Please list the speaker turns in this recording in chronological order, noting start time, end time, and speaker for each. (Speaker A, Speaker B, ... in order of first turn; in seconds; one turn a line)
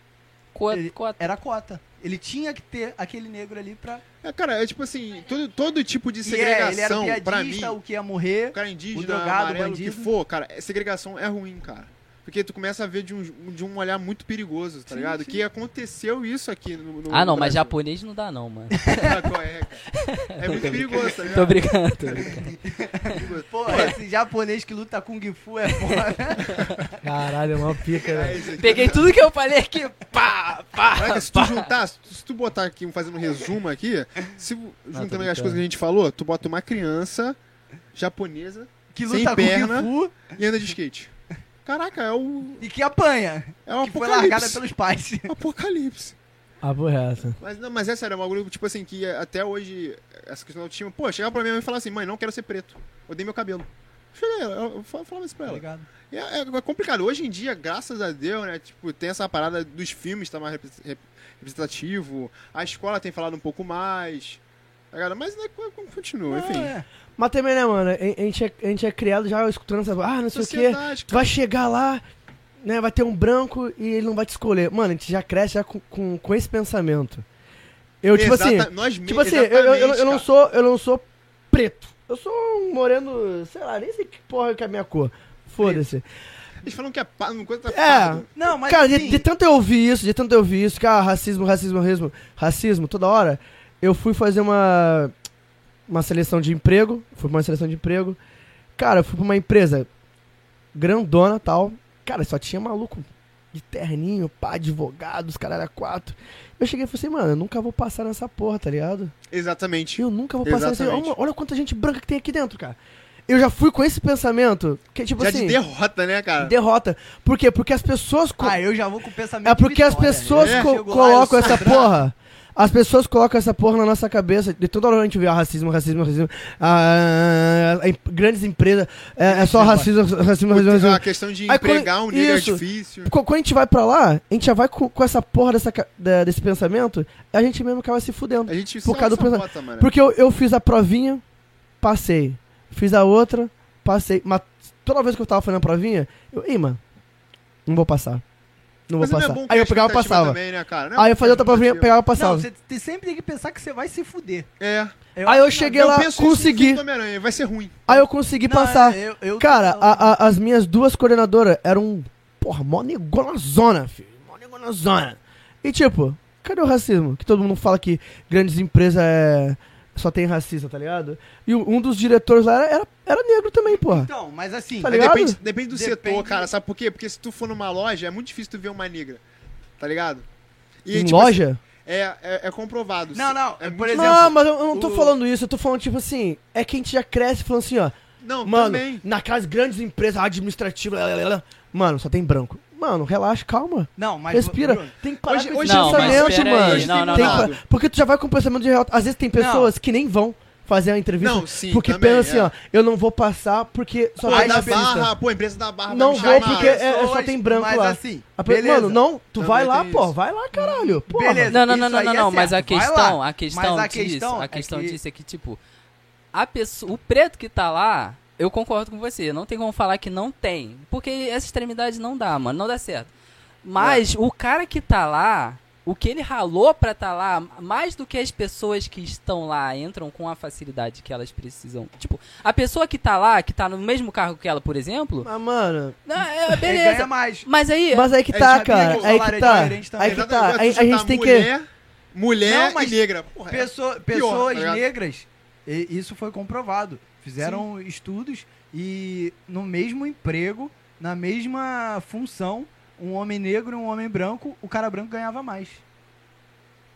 Speaker A: 0.5-1.3
Speaker B: 0.7-4.0
Speaker C: 4.2-7.8
Speaker B: 6.2-10.1
Speaker C: 8.5-17.8
Speaker B: 14.9-15.4
Speaker A: 17.1-19.2
Speaker C: 19.0-22.3
Speaker A: 19.9-22.5
Speaker B: 21.0-21.4
Speaker B: 22.3-26.5
Speaker C: 23.1-23.9
Speaker D: 27.0-28.4
Speaker C: 28.1-29.1
Speaker A: 28.6-31.7
Speaker C: 30.9-37.4
Speaker A: 34.9-35.6
Speaker C: 38.0-41.1
Speaker B: 38.9-40.3
Speaker C: 41.6-42.6
Speaker B: 42.6-45.3
Speaker C: 43.7-44.6
Speaker C: 45.3-46.2
Speaker D: 46.6-47.4
Speaker C: 47.4-64.4
Speaker B: 55.5-55.9
Speaker C: 64.9-66.7
Speaker B: 66.3-66.9
Speaker D: 67.2-72.0
Speaker C: 70.3-71.3
Speaker D: 72.6-77.2
Speaker D: 78.0-86.1
Speaker C: 78.1-80.2
Speaker B: 85.6-85.8
Speaker C: 86.6-88.3
Speaker D: 87.7-95.1
Speaker B: 88.3-89.3
Speaker D: 95.9-98.2
Speaker D: 98.8-99.9
Speaker D: 100.7-109.1
Speaker C: 109.3-111.2
Speaker D: 110.0-112.8
Speaker D: 113.3-115.6
Speaker C: 115.2-116.5
Speaker D: 116.4-118.6
Speaker B: 118.4-121.9
Speaker D: 119.5-141.2
Speaker C: 120.4-120.8
Speaker C: 121.4-121.9
Speaker B: 129.2-129.9
Speaker C: 130.5-133.1
Speaker C: 138.5-139.9
Speaker D: 141.8-146.8
Speaker D: 147.7-148.2
Speaker D: 148.9-150.4
Speaker C: 149.0-151.9
Speaker D: 150.9-152.5
Speaker B: 152.1-154.5
Speaker C: 154.6-154.9
Speaker B: 155.2-156.1
Speaker D: 155.2-156.8
Speaker C: 155.7-158.0
Speaker D: 157.9-174.1
Speaker B: 158.5-160.1
Speaker B: 173.7-175.0
Speaker D: 174.8-175.4
Speaker C: 174.8-179.2
Speaker B: 175.7-176.5
Speaker C: 179.8-180.3
Speaker C: 180.8-184.4
Speaker D: 180.9-181.6
Speaker B: 183.1-185.2
Speaker D: 183.9-205.1
Speaker C: 188.2-189.0
Speaker B: 194.0-195.0
Speaker C: 195.3-197.6
Speaker A: 195.6-197.5
Speaker B: 199.4-199.7
Speaker C: 201.2-202.5
Speaker C: 204.2-206.8
Speaker B: 204.3-205.1
Speaker D: 205.9-211.6
Speaker B: 206.1-209.0
Speaker C: 209.4-210.1
Speaker B: 210.6-215.0
Speaker A: 211.5-215.6
Speaker A: 216.3-223.1
Speaker A: 223.6-235.3
Speaker D: 235.2-236.0
Speaker A: 236.1-238.1
Speaker B: 236.6-237.5
Speaker D: 237.9-241.5
Speaker B: 238.3-240.3
Speaker C: 238.7-244.8
Speaker B: 242.4-255.8